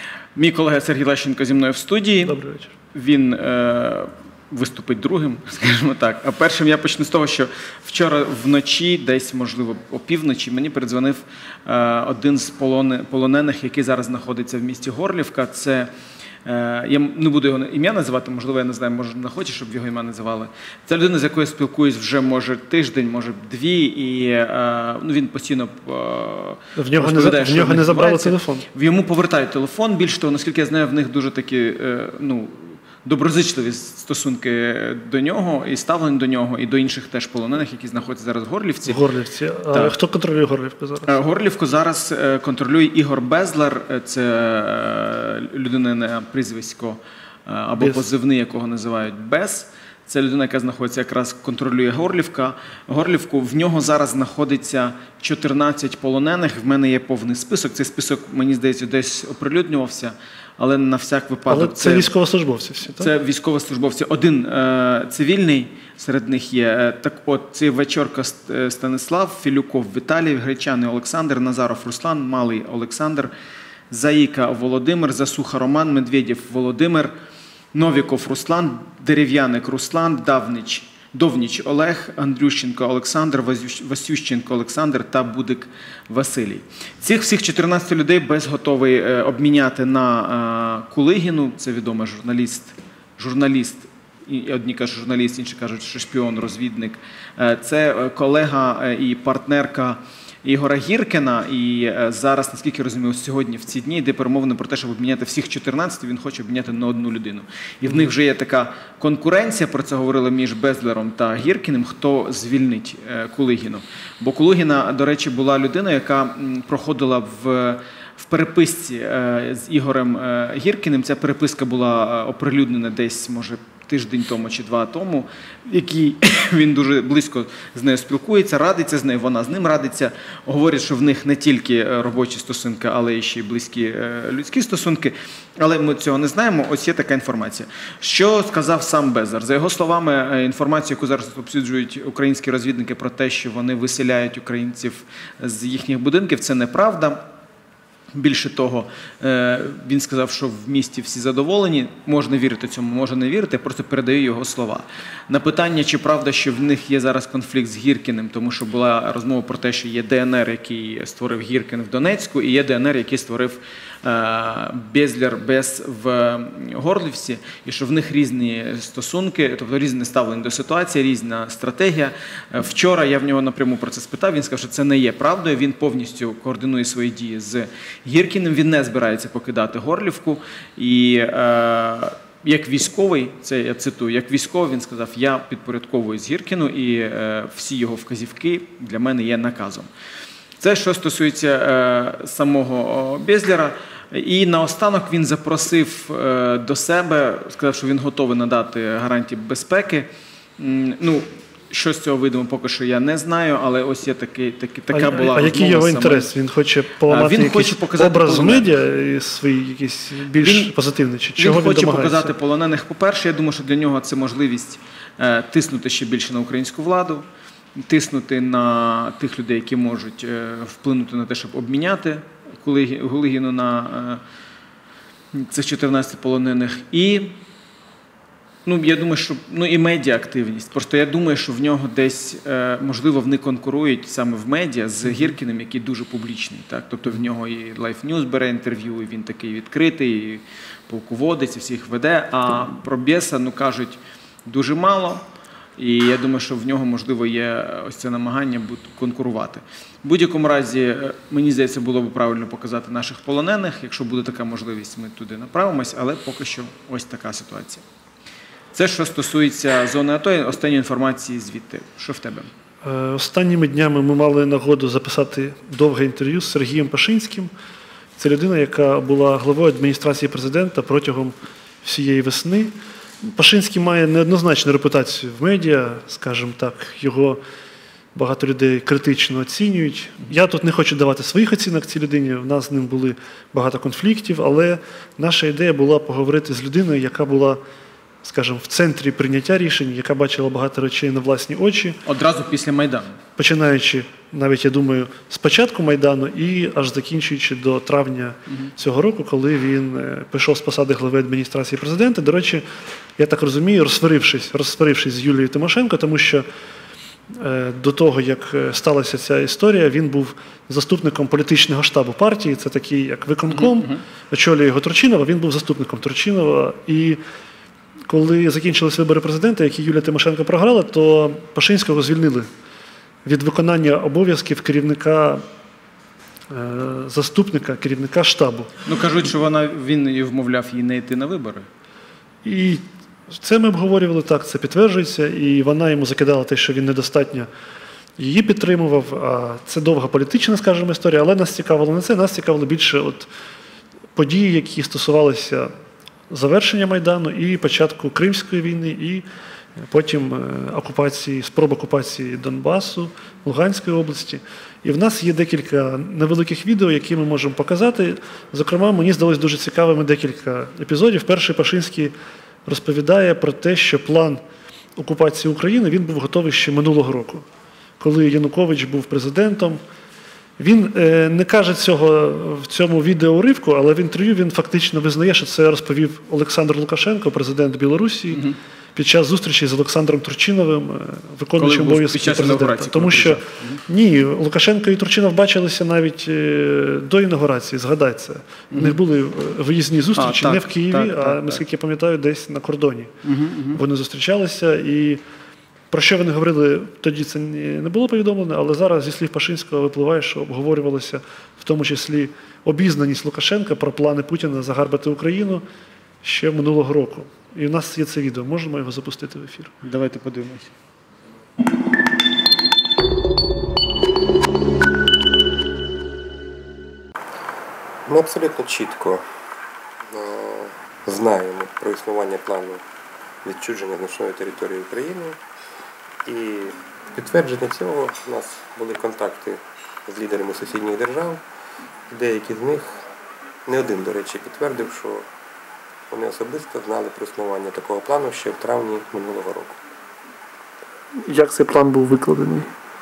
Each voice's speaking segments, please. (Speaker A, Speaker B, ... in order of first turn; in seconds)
Speaker A: 0.3-2.4, 2.9-15.9, 16.4-39.0, 41.0-62.1, 63.0-73.3, 73.9-77.1, 77.7-147.2, 148.1-189.9, 190.6-206.3, 207.1-208.8, 210.3-210.7, 211.4-217.2, 217.8-224.2, 225.3-227.3, 228.6-245.2, 245.8-257.8, 258.7-262.5, 292.0-293.2, 313.5-314.0, 328.8-331.7, 378.3-378.6, 381.6-383.8, 388.7-389.0, 390.2-391.6, 393.2-393.8, 409.8-410.7
Speaker B: 2.2-2.7, 26.8-28.6, 38.9-41.1, 61.5-63.1, 204.9-212.3, 262.8-267.5, 268.2-277.4, 278.1-287.6, 288.2-292.0, 293.4-302.6, 303.2-306.4, 307.3-317.2, 318.1-322.5, 323.2-325.4, 326.5-328.7, 332.4-337.5, 338.2-343.3, 344.1-345.7, 346.3-349.2, 349.9-362.1, 362.6-364.4, 365.0-367.4, 368.0-369.8, 370.6-378.4, 378.9-393.1, 393.7-395.2, 395.9-405.6, 406.2-409.7, 441.2-442.7
Speaker C: 418.1-419.2, 420.1-422.8, 423.4-425.4, 426.2-431.4, 432.1-433.0, 433.6-435.3, 436.1-439.8